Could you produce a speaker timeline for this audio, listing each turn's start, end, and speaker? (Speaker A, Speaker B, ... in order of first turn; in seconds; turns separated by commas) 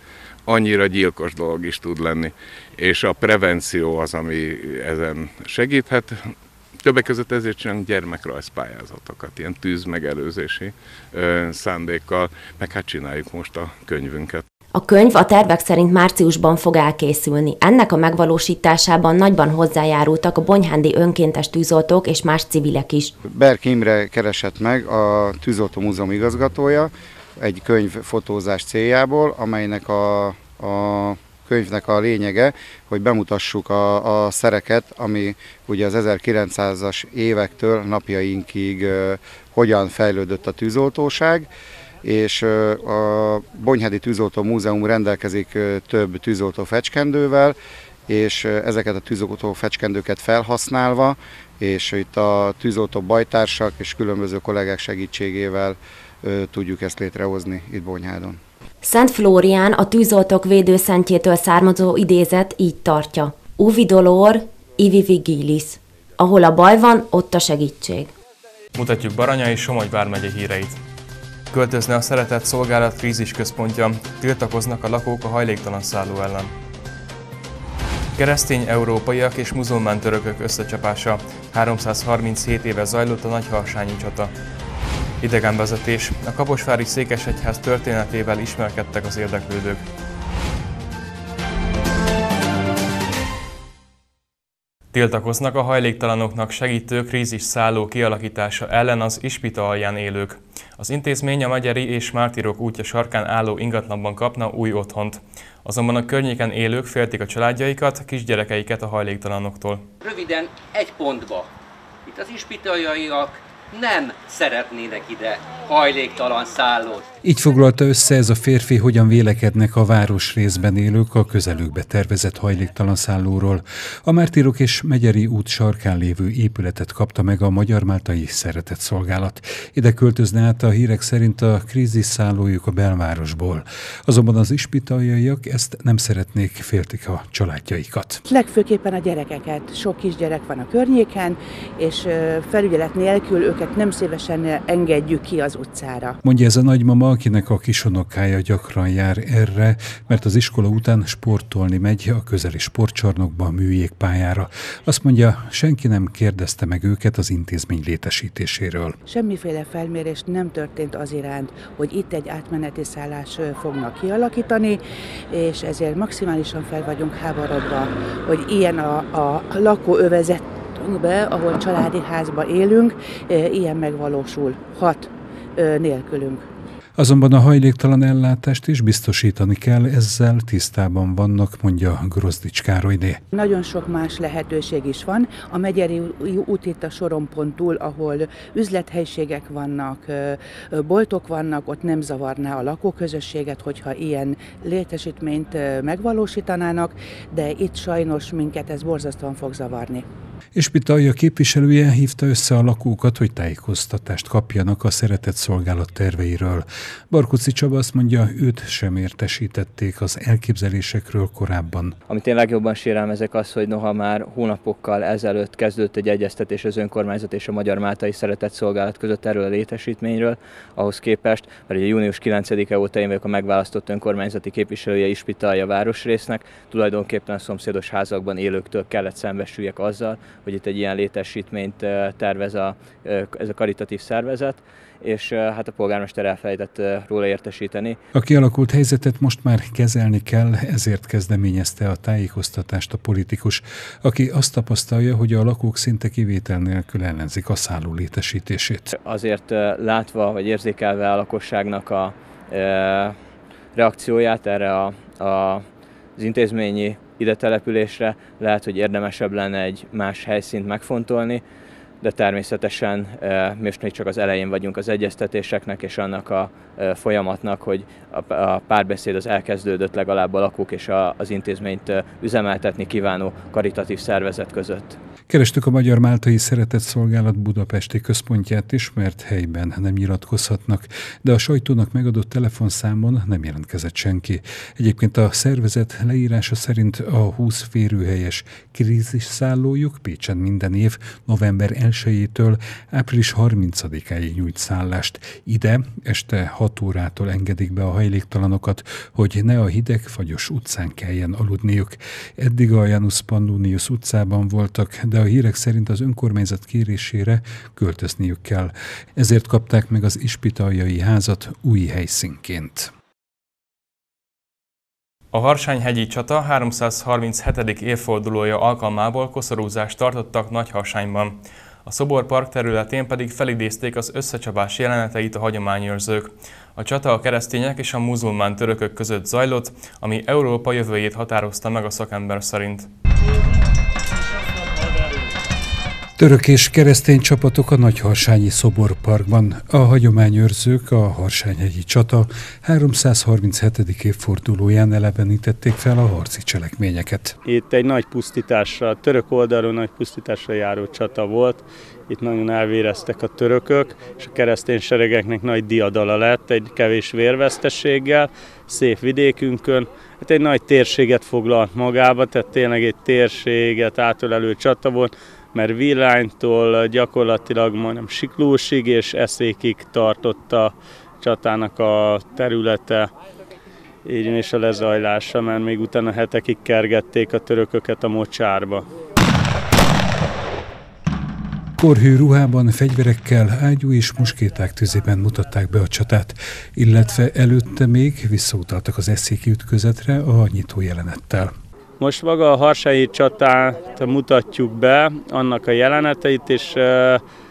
Speaker A: 0.5-6.2, Speaker A: 6.8-14.4, Speaker B: 14.7-23.1, Speaker C: 23.2-41.5, Speaker C: 42.0-47.5, Speaker C: 48.1-58.4, Speaker B: 58.8-68.1, Speaker D: 68.8-70.8, Speaker D: 71.5-76.5, Speaker D: 78.2-84.3, Speaker D: 85.2-89.8, Speaker D: 94.9-109.8, Speaker E: 110.0-111.5, Speaker E: 112.1-117.0, Speaker F: 117.2-138.2, Speaker G: 138.2-146.2, Speaker F: 146.2-158.9, Speaker G: 159.1-176.4, Speaker F: 177.0-183.2, Speaker G: 183.3-200.0, Speaker F: 200.6-211.9, Speaker H: 212.1-238.0, Speaker F: 238.1-248.9, Speaker H: 248.9-253.2, Speaker H: 253.8-255.6, Speaker H: 256.2-261.4, Speaker H: 262.0-275.0, Speaker F: 275.3-312.9, Speaker D: 315.3-332.9, Speaker F: 336.2-347.4, Speaker I: 347.4-373.1, Speaker I: 374.0-378.9, Speaker F: 381.8-391.5, Speaker I: 392.0-397.2